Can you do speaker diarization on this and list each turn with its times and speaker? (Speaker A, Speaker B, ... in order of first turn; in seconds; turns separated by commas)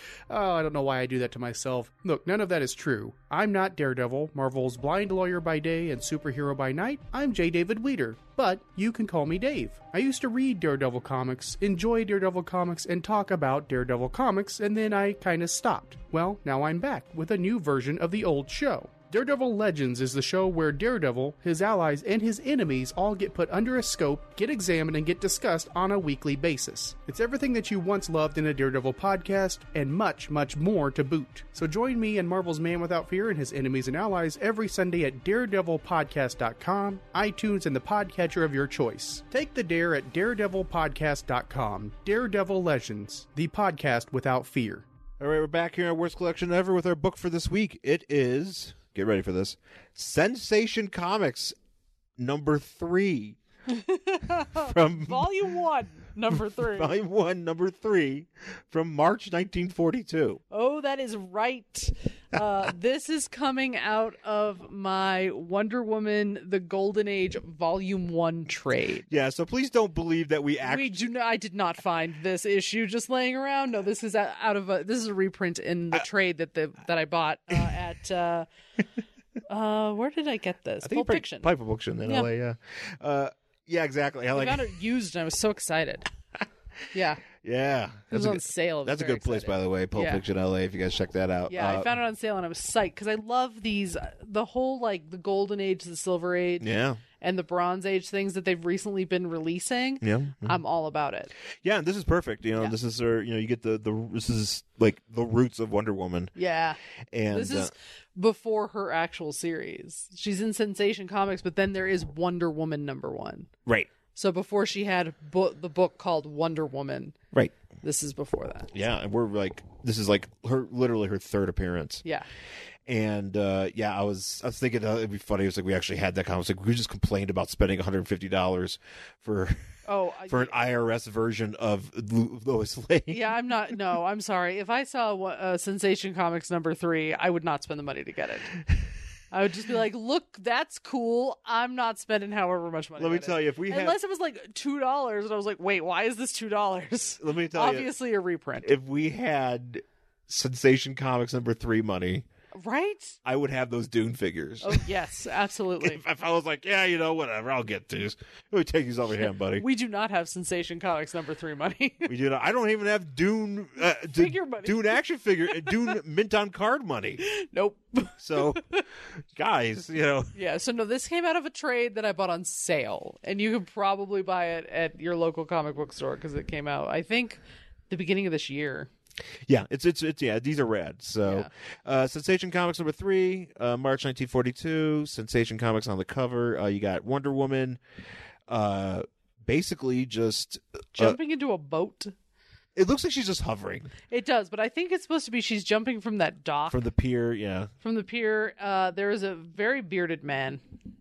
Speaker A: 0.3-44.9, Speaker B: 45.2-51.6, Speaker B: 52.2-53.4, Speaker C: 53.7-56.9, Speaker B: 54.5-55.4, Speaker B: 56.3-60.4, Speaker C: 60.5-69.1, Speaker B: 69.1-71.0, Speaker C: 70.6-78.5, Speaker C: 79.5-81.5, Speaker B: 80.8-84.7, Speaker C: 84.3-86.1, Speaker C: 86.9-87.2, Speaker B: 87.2-91.9, Speaker C: 88.1-90.2, Speaker C: 91.5-96.7, Speaker B: 96.6-97.0, Speaker C: 97.2-101.3, Speaker B: 100.0-100.6, Speaker B: 101.6-106.3, Speaker C: 106.4-106.8, Speaker B: 107.1-107.7, Speaker C: 107.3-113.5, Speaker C: 114.1-117.2, Speaker C: 117.8-118.7, Speaker B: 118.7-122.0, Speaker B: 122.9-129.6, Speaker C: 129.9-130.6, Speaker B: 130.3-133.2, Speaker C: 133.1-138.5, Speaker C: 139.3-148.7, Speaker B: 143.0-144.0, Speaker B: 147.2-147.9, Speaker B: 148.6-152.3, Speaker C: 152.6-153.2, Speaker B: 153.2-154.9, Speaker C: 154.6-156.0, Speaker B: 155.8-159.7, Speaker C: 159.6-162.1, Speaker B: 162.1-167.2, Speaker C: 164.1-165.0, Speaker C: 165.6-165.8, Speaker C: 167.2-168.8, Speaker B: 168.2-168.6, Speaker B: 169.4-170.3, Speaker C: 170.3-178.9, Speaker B: 179.5-187.8, Speaker B: 188.5-191.2, Speaker C: 190.9-192.1, Speaker B: 192.8-193.9, Speaker C: 194.1-196.9, Speaker B: 196.7-197.7, Speaker C: 197.8-200.6